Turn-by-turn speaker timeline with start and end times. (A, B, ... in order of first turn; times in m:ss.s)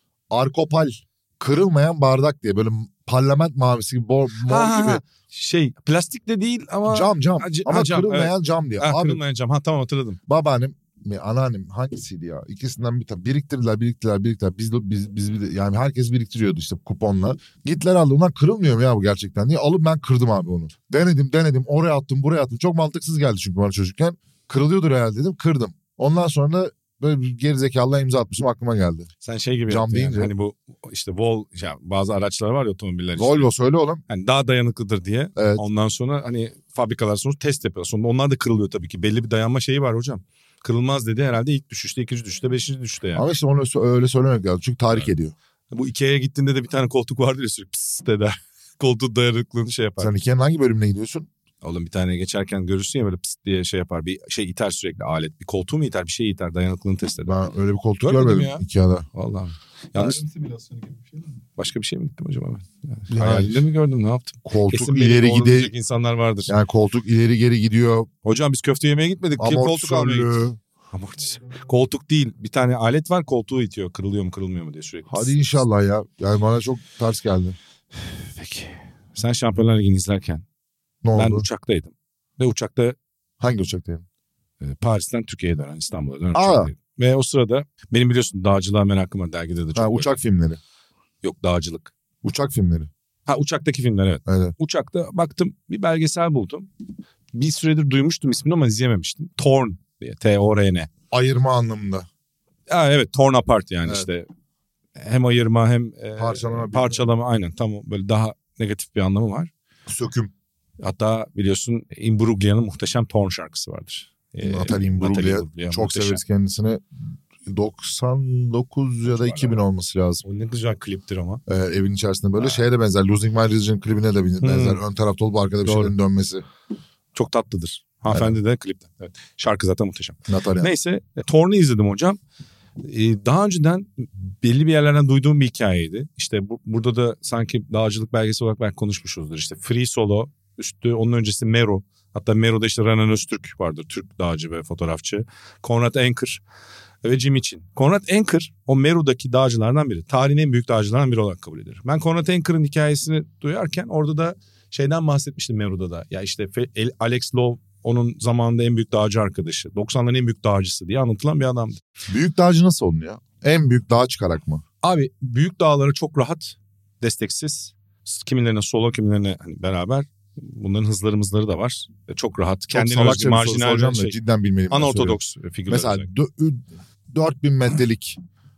0:00.3-0:05.0 A
0:04.4-0:10.2 B
0:06.9-0:09.2 A
0:10.3-0:29.1 A
0:29.2-0:33.5 B
0:29.7-0:30.3 A
0:33.2-0:34.0 A
0:34.1-0:43.2 B
0:35.4-0:35.6 A
0:43.2-0:45.3 A
0:45.7-0:50.1 B
0:50.0-0:51.3 A
0:51.6-0:57.4 B
0:57.2-0:59.0 A
0:58.0-1:00.2 B
0:59.9-1:01.4 C
1:01.6-1:06.5 B
1:03.1-1:03.6 A
1:04.4-1:05.7 A
1:06.5-1:08.1 A
1:08.2-1:10.4 B
1:09.4-1:10.6 A
1:10.9-1:15.4 B
1:11.2-1:11.7 C
1:15.1-1:17.6 A
1:18.0-1:20.4 B
1:21.0-1:21.4 A
1:21.1-1:23.0 B
1:23.4-1:24.0 A
1:24.6-1:30.2 B
1:26.3-1:26.7 A
1:29.8-1:30.6 A
1:31.2-1:31.9 B
1:32.2-1:32.9 A
1:33.3-1:36.7 B
1:34.3-1:34.5 A
1:37.3-1:40.9 B
1:41.1-1:42.1 A
1:42.7-1:44.3 B
1:45.0-1:49.5 B
1:46.2-1:47.1 A
1:49.9-1:50.3 A
1:50.8-1:56.2 B
1:54.4-1:56.8 A
1:57.4-2:00.2 A
1:59.0-1:59.6 B
2:00.2-2:01.4 B
2:01.5-2:06.4 A
2:02.4-2:02.6 B
2:04.4-2:04.8 B
2:05.6-2:05.9 B
2:07.1-2:12.2 B
2:08.1-2:08.4 A
2:10.3-2:10.7 A
2:12.8-2:26.4 B
2:27.0-2:41.8 B
2:42.1-2:44.6 A
2:44.8-2:54.2 B
2:52.7-2:58.2 A
2:54.7-2:56.1 B